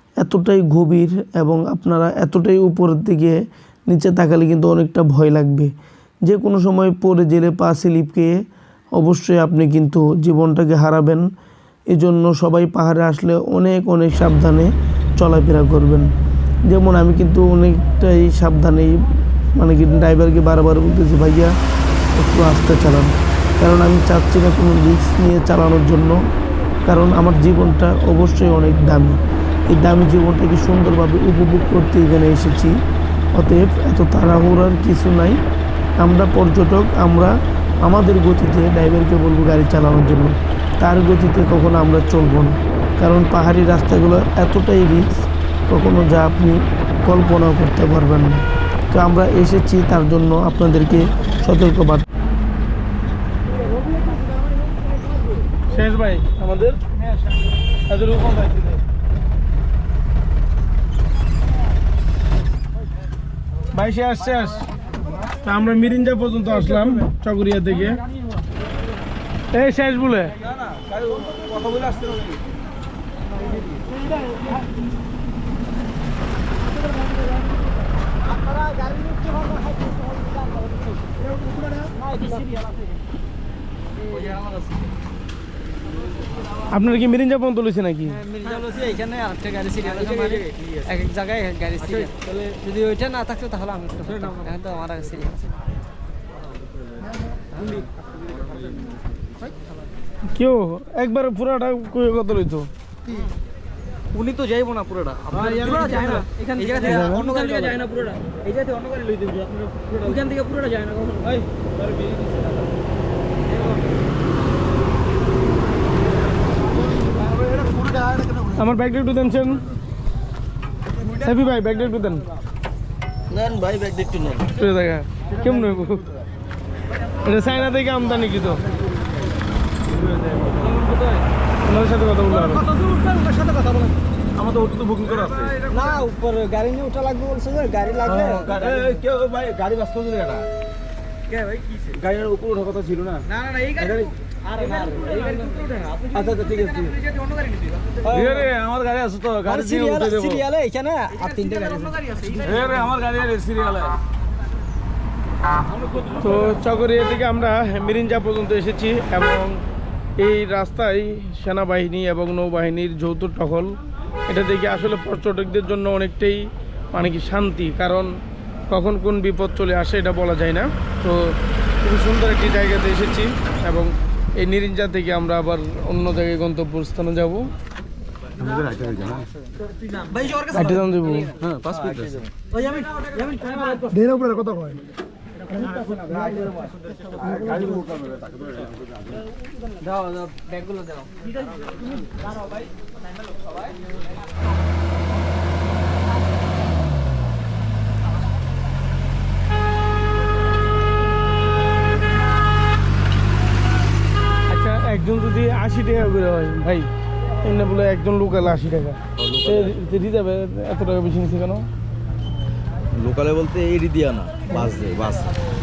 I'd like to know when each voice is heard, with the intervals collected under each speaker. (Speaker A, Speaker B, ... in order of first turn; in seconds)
Speaker A: 0.2-3.4, 3.9-5.7, 6.2-8.4, 9.0-11.2, 11.9-16.1, 16.7-21.5, 22.1-26.2, 26.9-32.8, 33.4-35.4, 36.0-52.0
Speaker B: 55.7-56.8, 57.9-58.8, 63.7-64.7, 65.4-68.0, 69.5-70.3, 86.7-88.2, 100.3-102.7, 106.8-107.2, 118.5-119.6, 121.1-122.2, 124.5-126.0, 127.2-128.7, 131.6-132.6, 156.2-159.6, 160.2-163.8, 164.3-168.1, 168.7-177.5, 180.5-181.3, 204.5-206.9, 207.4-211.7
Speaker C: 70.5-72.4, 105.5-106.2, 106.9-107.6, 117.4-118.4, 123.3-124.5, 129.9-130.8, 134.4-135.7, 138.1-140.5, 141.9-143.3, 143.8-144.1, 144.7-145.3, 146.1-146.9, 148.0-150.4, 152.3-153.9, 178.4-179.2, 181.4-182.3, 187.2-188.5, 209.2-209.7, 212.9-215.3
Speaker D: 78.2-81.2, 81.9-83.0, 84.1-84.7, 88.1-95.4, 97.5-97.8, 104.1-110.6, 111.2-111.4, 132.3-134.0, 135.7-138.9, 141.3-141.9, 143.3-146.9, 148.0-148.5, 149.4-152.6, 180.1-180.8, 182.5-183.9, 189.8-191.0